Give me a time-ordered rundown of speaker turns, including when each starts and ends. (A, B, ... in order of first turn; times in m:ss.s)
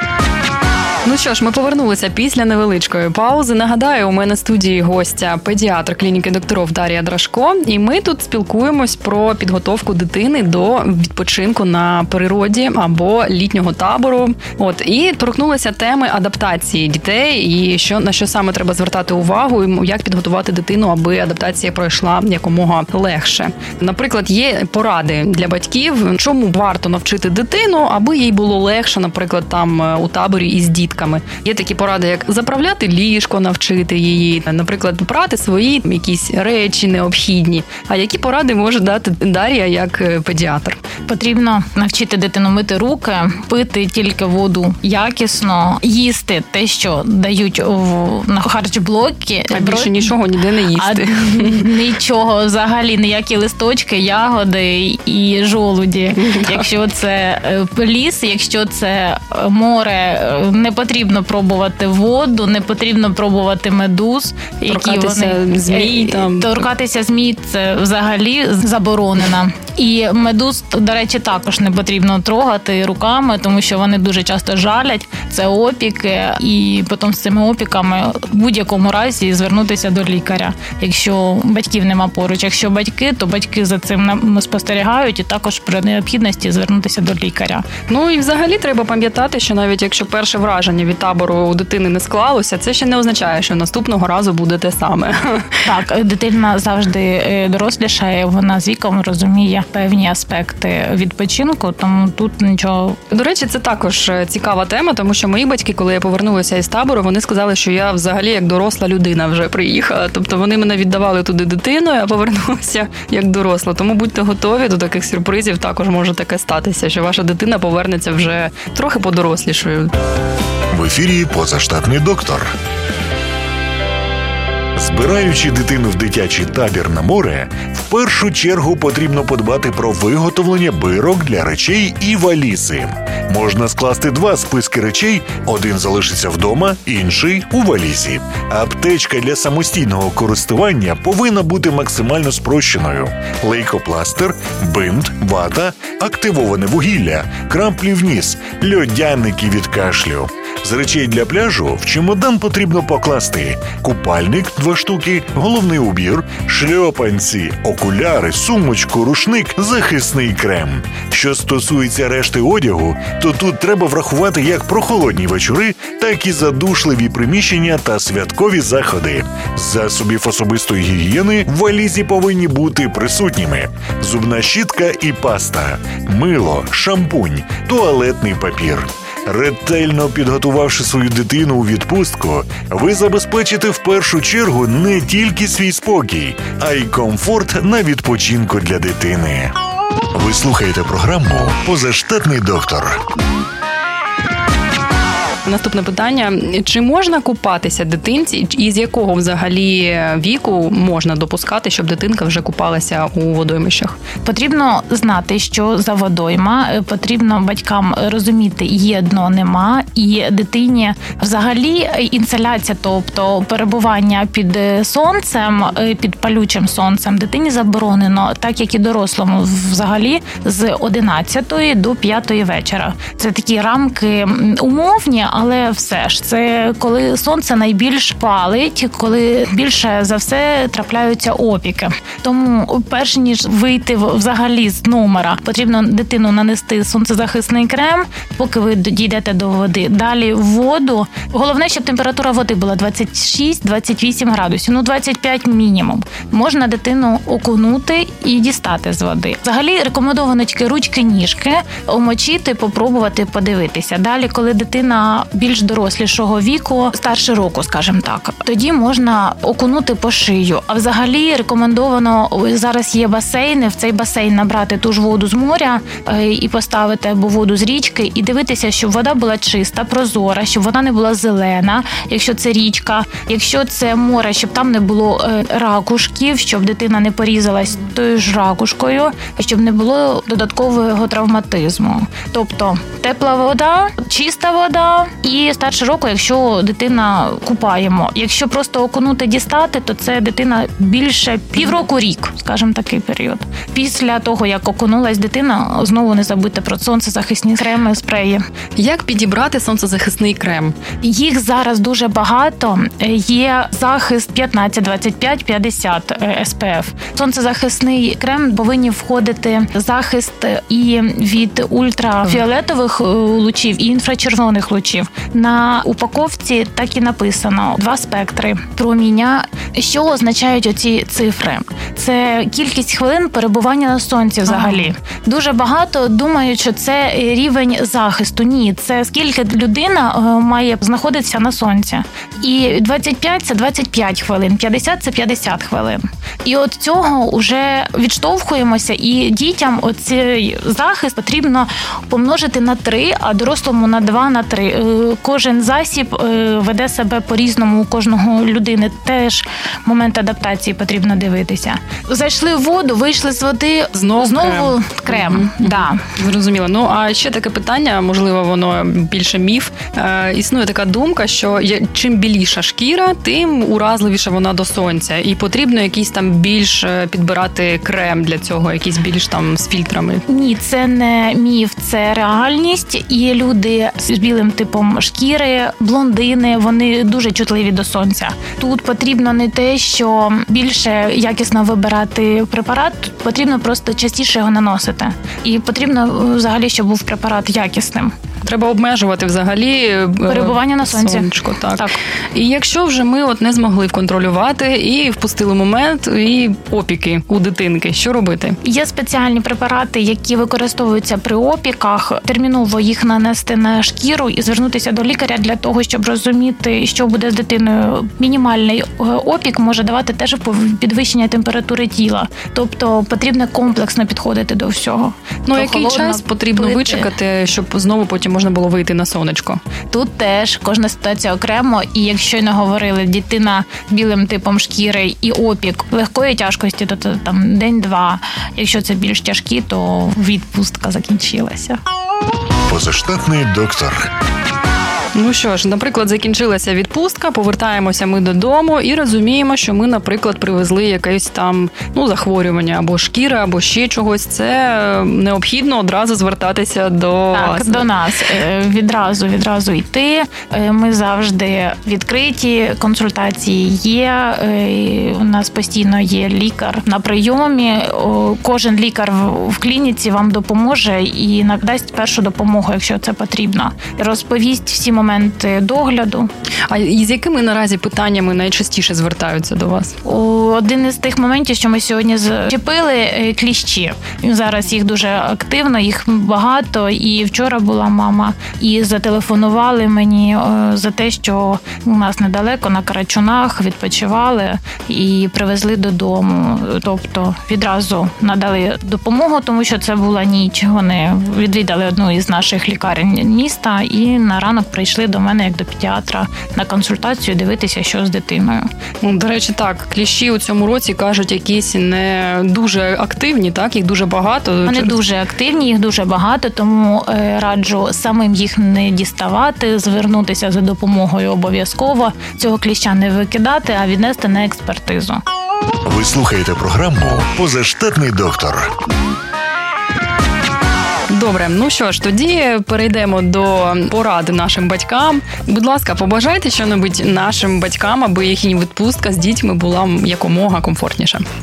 0:01.0-0:40.8 A
0:41.1-0:50.2 B
0:49.5-0:51.7 A
0:50.8-1:27.7 B
0:56.2-0:56.7 A
1:04.7-1:06.6 A
1:27.9-1:35.7 A
1:35.6-1:43.0 B
1:43.1-1:59.9 A
2:00.7-2:02.5 C
2:04.8-3:09.5 C
3:10.1-3:13.0 C
3:15.5-3:24.0 A
3:24.2-4:58.4 B
4:58.8-5:00.7 A
5:01.0-5:56.0 B
5:24.5-5:24.9 A
5:53.9-6:10.2 A
6:10.3-6:28.1 B
6:28.4-6:38.6 A
6:30.3-6:32.0 B
6:38.6-6:57.1 B
6:55.5-6:59.6 A
6:59.9-7:11.8 B
7:12.7-7:14.1 C
7:15.2-7:27.9 A
7:27.3-7:46.3 B
7:46.7-7:50.0 A
7:50.0-8:18.7 B
8:19.0-8:25.0 A
8:24.7-8:35.2 B
8:35.9-8:38.7 C
8:41.1-8:51.3 A